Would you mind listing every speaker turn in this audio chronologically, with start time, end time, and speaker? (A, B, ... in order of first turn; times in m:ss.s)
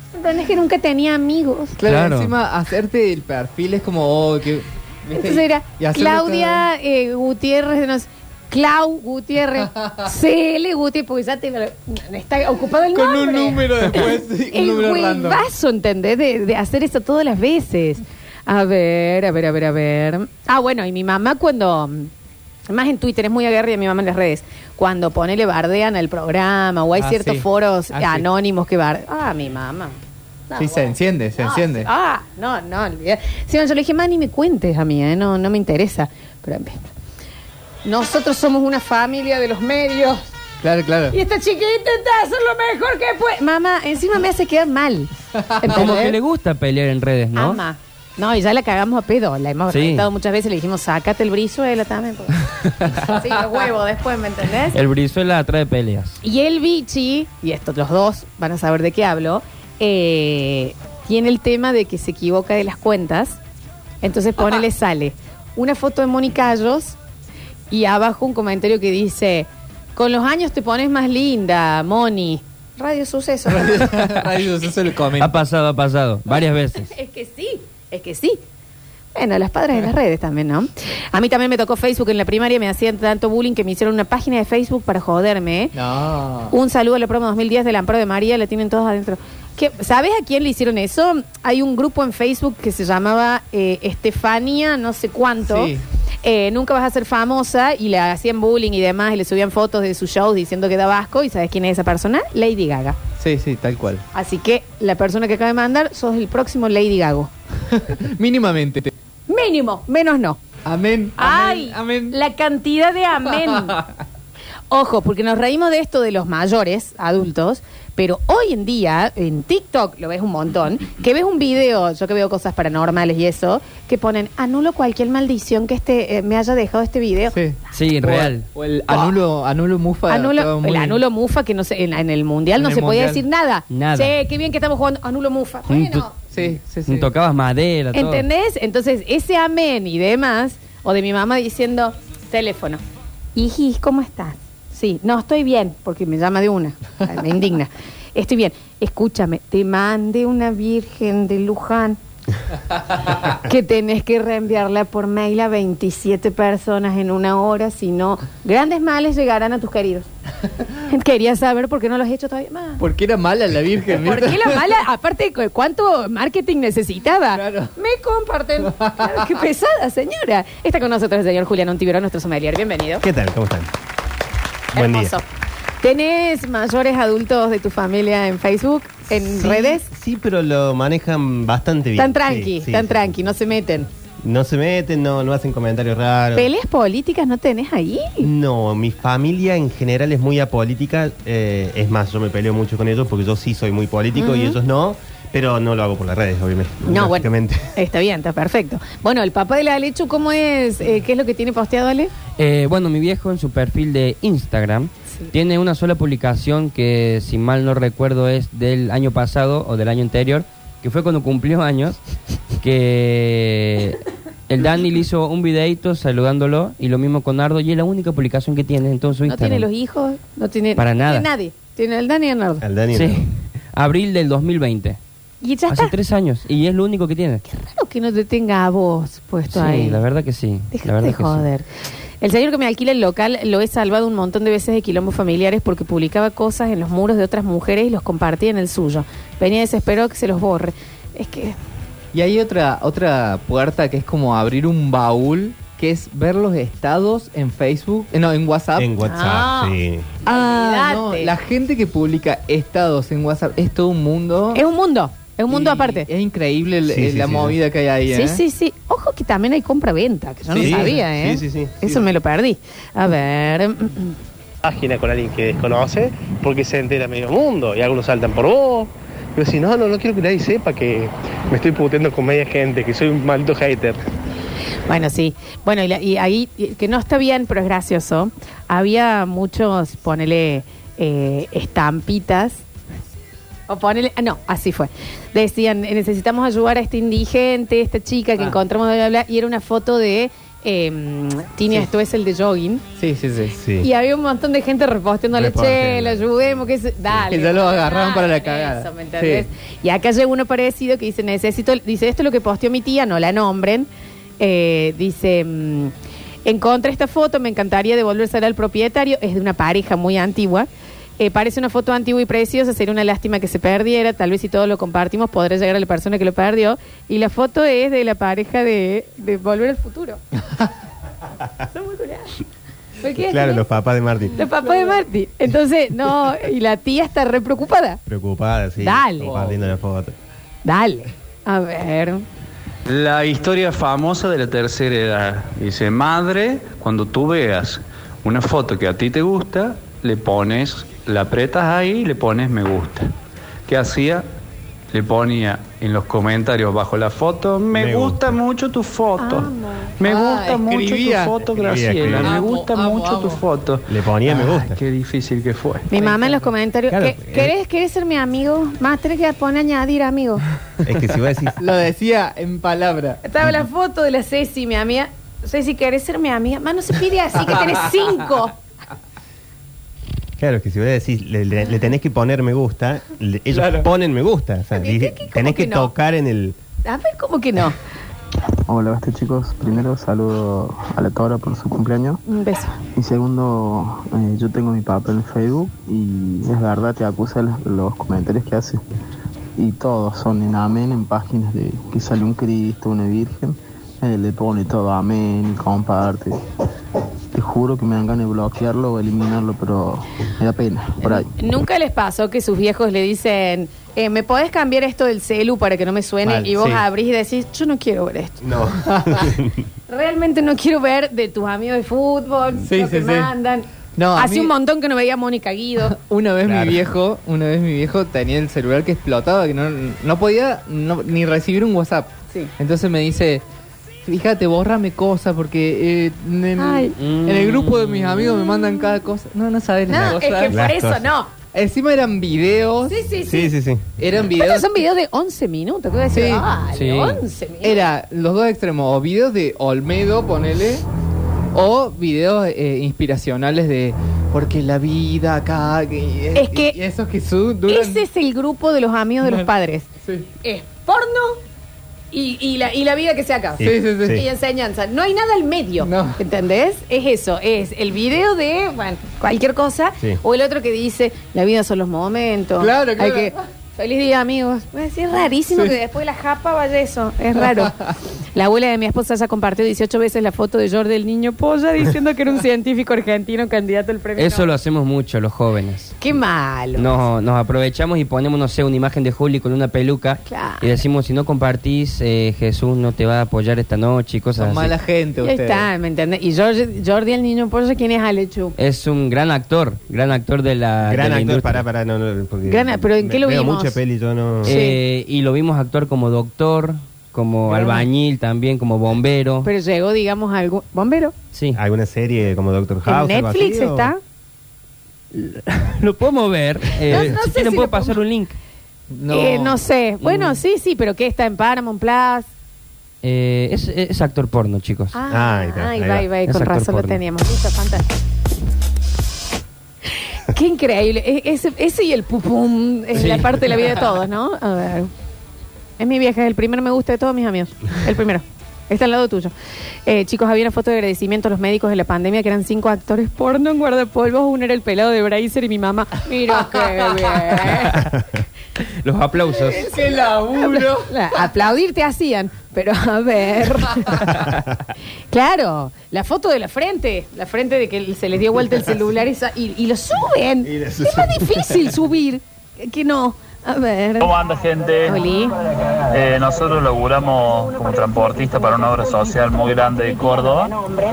0:00.1-0:01.8 A
0:01.8-0:06.6 B
0:01.8-0:02.3 C
0:05.1-0:22.1 A
0:09.7-0:10.1 B
0:12.9-0:15.4 B
0:22.7-0:30.0 A
0:27.0-0:28.2 B
0:30.5-0:36.8 A
0:30.6-0:31.9 B
0:37.8-0:40.3 A
0:40.6-0:41.2 B
0:41.1-0:46.2 A
0:45.4-0:46.0 B
0:45.7-0:47.6 C
0:47.3-0:52.4 A
0:49.7-0:50.0 C
0:53.0-0:54.8 A
0:54.7-0:56.2 C
0:56.2-1:03.4 A
1:04.0-1:07.0 A
1:07.7-1:14.0 A
1:13.5-1:15.3 B
1:15.2-1:16.9 C
1:16.8-1:18.4 A
1:19.1-1:25.7 A
1:25.7-1:26.5 B
1:26.5-1:35.7 A
1:35.4-1:35.8 B
1:36.2-1:43.0 A
1:43.2-1:44.0 B
1:44.1-1:47.3 A
1:47.7-1:48.9 B
1:49.3-1:50.4 A
1:50.6-1:52.2 B
1:51.2-1:53.8 A
1:54.7-2:07.4 A
2:07.3-2:11.0 B
2:07.7-2:08.4 C
2:08.9-2:09.2 A
2:10.1-2:16.2 A
2:12.6-2:13.2 B
2:13.7-2:14.1 C
2:15.7-2:16.1 C
2:16.3-2:17.1 B
2:16.8-2:18.2 C
2:17.9-2:22.8 A
2:23.3-2:32.0 A
2:33.3-2:40.1 A
2:40.9-2:42.8 A
2:42.8-2:44.6 B
2:43.9-2:53.0 A
2:47.3-2:47.7 B
2:48.7-2:49.2 B
2:53.0-2:53.7 D
2:54.7-2:55.2 D
2:54.7-2:55.2 A
2:55.8-2:59.8 A
2:59.2-3:03.2 D
3:02.0-3:03.9 A
3:04.2-3:06.5 D
3:06.3-3:08.3 A
3:08.2-3:17.7 D
3:14.2-3:14.6 A
3:16.9-3:22.1 A
3:22.4-3:32.0 C
3:32.6-3:39.7 C
3:39.2-3:42.6 A
3:40.8-3:41.3 C
3:42.6-3:43.2 D
3:42.9-3:45.0 C
3:45.4-3:45.9 A
3:45.7-3:47.4 C
3:47.5-3:50.0 A
3:49.5-3:51.4 C
3:50.7-3:51.7 A
3:52.2-4:01.6 A
4:02.1-4:08.9 B
4:08.8-4:10.1 D
4:09.0-4:11.3 A
4:10.2-4:14.6 B
4:14.5-4:16.1 A
4:15.5-4:18.4 B
4:16.9-4:17.6 D
4:18.1-4:24.2 A
4:20.5-4:21.0 B
4:20.6-4:22.0 D
4:24.6-4:34.0 E
4:34.9-4:42.6 A
4:43.7-4:52.8 A
4:53.0-4:53.6 B
4:53.5-4:53.9 D
4:53.8-5:03.9 A
4:55.3-4:56.6 D
4:57.3-4:59.4 B
5:04.4-5:05.9 A
5:06.4-5:10.7 A
5:11.2-5:20.2 A
5:21.7-5:22.3 A
5:23.0-5:23.6 A
5:23.2-5:24.4 D
5:24.3-5:28.0 A
5:28.0-5:30.1 D
5:28.8-5:29.4 A
5:29.3-5:29.5 B
5:30.6-5:32.2 A
5:32.8-5:43.1 F
5:43.6-5:44.3 F
5:44.9-5:55.9 F
5:47.7-5:48.4 D
5:49.2-5:49.9 A
5:50.0-5:53.4 B
5:51.5-5:52.4 D
5:53.9-5:54.8 D
5:55.9-6:00.4 A
5:56.0-5:56.5 B
5:56.9-5:57.5 D
6:00.8-6:01.7 D
6:01.6-6:03.2 B
6:03.2-6:08.5 A
6:10.4-6:16.6 D
6:13.5-6:13.9 B
6:14.7-6:15.9 A
6:16.8-6:17.8 A
6:18.7-6:22.2 G
6:22.3-6:22.8 A
6:22.9-6:28.8 G
6:29.6-6:36.4 G
6:37.3-6:41.3 G
6:41.0-6:48.4 A
6:46.5-6:46.8 D
6:48.4-6:49.6 D
6:48.9-6:49.2 B
6:49.9-6:55.9 A
6:52.6-6:53.3 B
6:54.0-6:54.5 B
6:55.9-7:03.4 B
6:56.4-6:56.8 D
7:04.0-7:10.7 B
7:06.6-7:07.0 A
7:07.0-7:08.2 C
7:09.9-7:11.3 A
7:10.5-7:11.0 D
7:11.5-7:13.0 B
7:12.9-7:13.5 A
7:13.2-7:13.8 D
7:14.0-7:14.8 B
7:14.2-7:17.9 A
7:16.1-7:16.5 B
7:16.7-7:17.2 C
7:17.6-7:20.8 B
7:21.5-7:28.0 B
7:26.4-7:26.8 A
7:27.7-7:31.4 A
7:29.2-7:29.5 B
7:32.1-7:47.7 A
7:33.6-7:34.2 D
7:33.6-7:34.2 B
7:35.8-7:36.2 B
7:42.6-7:43.4 B
7:48.3-7:54.5 A
7:54.2-7:56.0 C
7:56.0-7:56.9 A
7:56.8-8:04.7 C
8:00.3-8:00.6 A
8:04.4-8:05.6 B
8:05.2-8:08.6 A
8:08.6-8:11.6 C
8:10.8-8:14.6 D
8:12.5-8:13.8 A
8:14.4-8:19.5 C
8:14.4-8:14.8 A
8:17.5-8:17.8 A
8:19.4-8:21.1 A
8:21.3-8:21.6 C
8:21.5-8:23.9 D
8:22.9-8:24.0 A
8:25.1-8:28.4 C
8:26.9-8:28.0 A
8:28.9-8:30.4 B
8:29.1-8:32.3 A
8:33.0-8:35.0 C
8:34.9-8:37.8 A
8:35.1-8:36.1 D
8:36.3-8:37.0 C
8:40.3-8:44.9 A
8:43.0-8:43.2 C
8:45.8-8:49.3 A
8:49.8-8:57.9 A
8:58.8-8:59.7 C
8:59.4-9:04.4 A
8:59.6-9:01.0 B
9:05.1-9:14.1 A
9:10.4-9:11.7 D
9:14.0-9:15.1 H
9:14.8-9:15.3 A
9:15.9-9:20.7 H